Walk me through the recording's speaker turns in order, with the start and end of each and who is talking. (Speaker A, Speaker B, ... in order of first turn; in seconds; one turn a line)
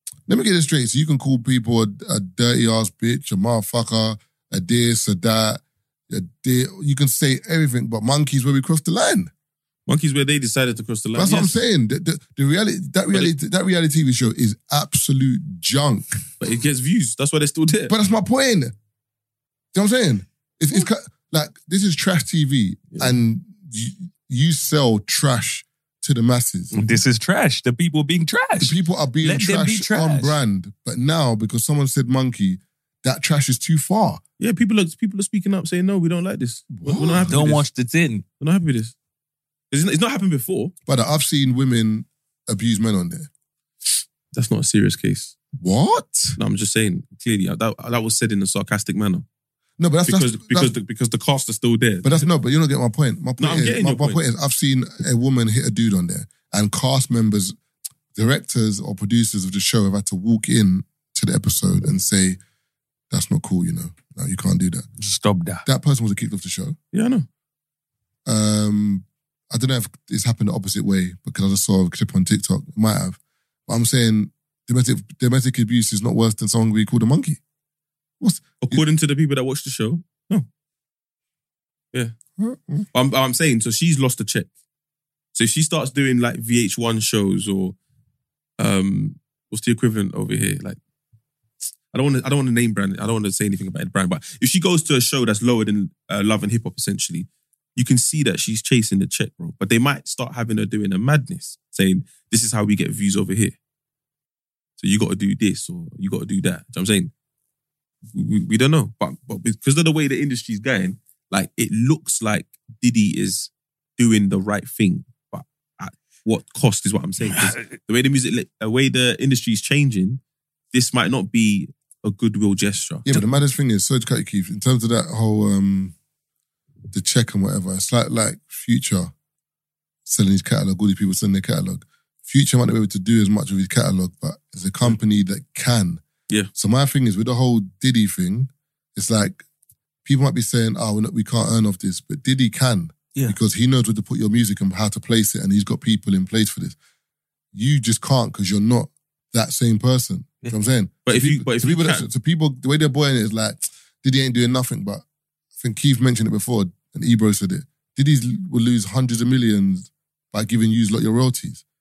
Speaker A: 0.3-9.3
Speaker B: 9.9-11.6
Speaker A: 11.1-16.2
Speaker B: 16.4-17.9
Speaker A: 17.9-18.7
Speaker A: 19.7-26.8
Speaker B: 22.9-23.2
Speaker C: 26.7-30.4
Speaker A: 28.6-34.2
Speaker B: 34.4-37.6
Speaker A: 36.7-37.4
Speaker C: 37.3-38.2
Speaker B: 38.4-38.9
Speaker B: 39.7-40.7
Speaker A: 40.9-43.3
Speaker B: 44.3-45.3
Speaker A: 45.6-46.4
Speaker B: 46.4-49.2
Speaker A: 49.8-50.7
Speaker B: 50.1-52.3
Speaker A: 52.0-57.6
Speaker B: 53.4-54.2
Speaker A: 58.1-62.4
Speaker A: 63.1-64.9
Speaker C: 65.0-65.6
Speaker A: 65.6-66.8
Speaker B: 66.9-67.3
Speaker A: 68.3-77.4
Speaker A: 78.2-78.8
Speaker B: 78.6-80.5
Speaker A: 82.4-82.9
Speaker B: 82.9-84.5
Speaker B: 85.3-87.8
Speaker B: 88.6-90.8
Speaker B: 91.9-103.6
Speaker B: 104.8-107.1
Speaker B: 108.1-120.2
Speaker C: 117.4-117.7
Speaker B: 120.7-123.1
Speaker A: 123.0-125.9
Speaker A: 126.9-129.1
Speaker A: 130.1-136.0
Speaker A: 136.6-139.4
Speaker A: 140.1-146.8
Speaker A: 147.5-155.1
Speaker B: 151.1-152.1
Speaker A: 155.6-161.6